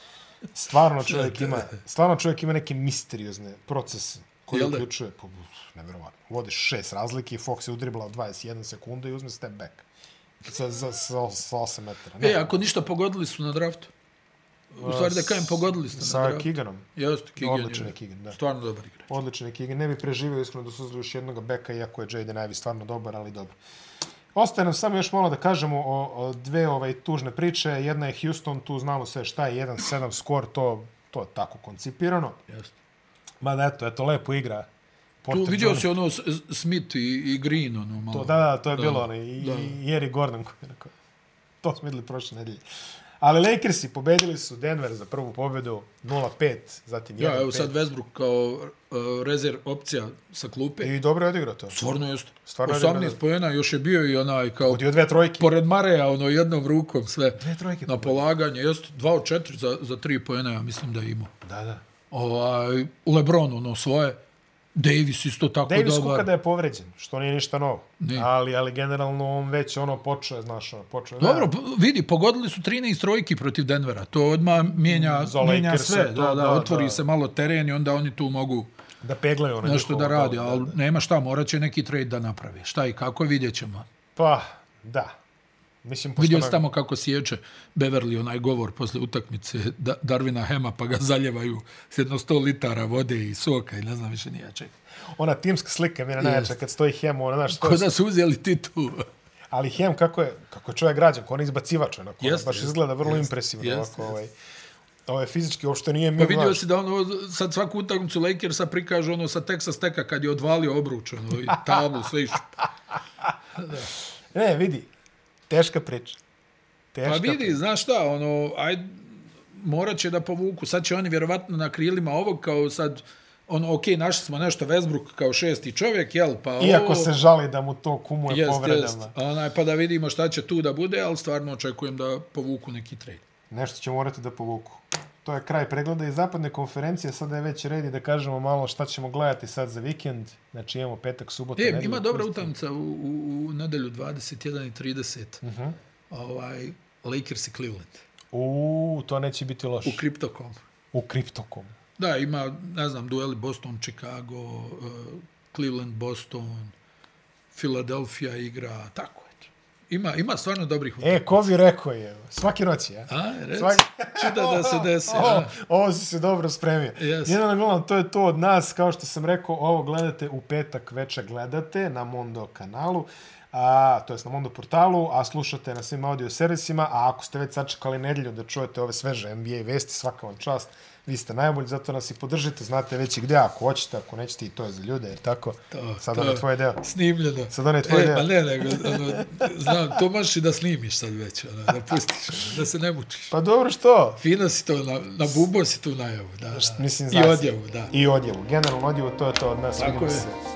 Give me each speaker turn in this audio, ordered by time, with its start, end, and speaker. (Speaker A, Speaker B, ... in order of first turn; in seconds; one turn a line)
Speaker A: 0.5-9.8
Speaker B: 1.1-1.6
Speaker B: 4.5-4.8
Speaker A: 10.4-12.6
Speaker B: 12.2-13.9
Speaker A: 14.8-16.9
Speaker B: 14.8-19.1
Speaker A: 17.4-18.4
Speaker A: 19.1-23.6
Speaker A: 24.3-32.4
Speaker B: 32.5-32.7
Speaker A: 33.4-34.7
Speaker A: 35.2-36.0
Speaker B: 35.3-39.8
Speaker A: 38.1-40.9
Speaker A: 41.6-42.6
Speaker A: 43.2-47.8
Speaker B: 47.2-50.9
Speaker A: 50.8-51.8
Speaker B: 51.7-54.8
Speaker A: 52.5-53.2
Speaker A: 54.6-55.5
Speaker B: 55.4-61.3
Speaker A: 57.4-58.2
Speaker A: 61.4-61.8
Speaker B: 62.1-64.2
Speaker B: 64.8-66.3
Speaker A: 65.7-71.5
Speaker B: 68.0-68.3
Speaker B: 71.2-78.7
Speaker A: 74.9-77.0
Speaker A: 79.0-80.8
Speaker B: 79.6-83.9
Speaker A: 84.2-85.2
Speaker A: 85.8-86.7
Speaker B: 86.2-94.7
Speaker A: 95.1-97.9
Speaker B: 96.2-96.5
Speaker B: 97.5-99.1
Speaker A: 99.5-104.3
Speaker B: 102.2-104.1
Speaker A: 105.1-106.6
Speaker B: 106.2-112.7
Speaker B: 113.6-113.9
Speaker A: 114.3-114.9
Speaker A: 115.5-116.2
Speaker A: 116.9-117.6
Speaker B: 117.0-127.1
Speaker A: 126.6-129.1
Speaker B: 128.3-133.2
Speaker A: 133.5-142.5
Speaker B: 141.6-145.4
Speaker A: 145.4-145.8
Speaker B: 146.1-148.1
Speaker A: 148.3-150.0
Speaker B: 149.8-150.7
Speaker A: 150.9-151.8
Speaker B: 152.0-156.7
Speaker B: 157.5-161.5
Speaker A: 161.0-186.8
Speaker B: 163.1-165.5
Speaker B: 167.0-167.4
Speaker B: 185.7-193.4
Speaker A: 187.5-189.8
Speaker A: 193.3-194.2
Speaker B: 194.2-197.9
Speaker A: 196.5-200.4
Speaker B: 199.8-200.3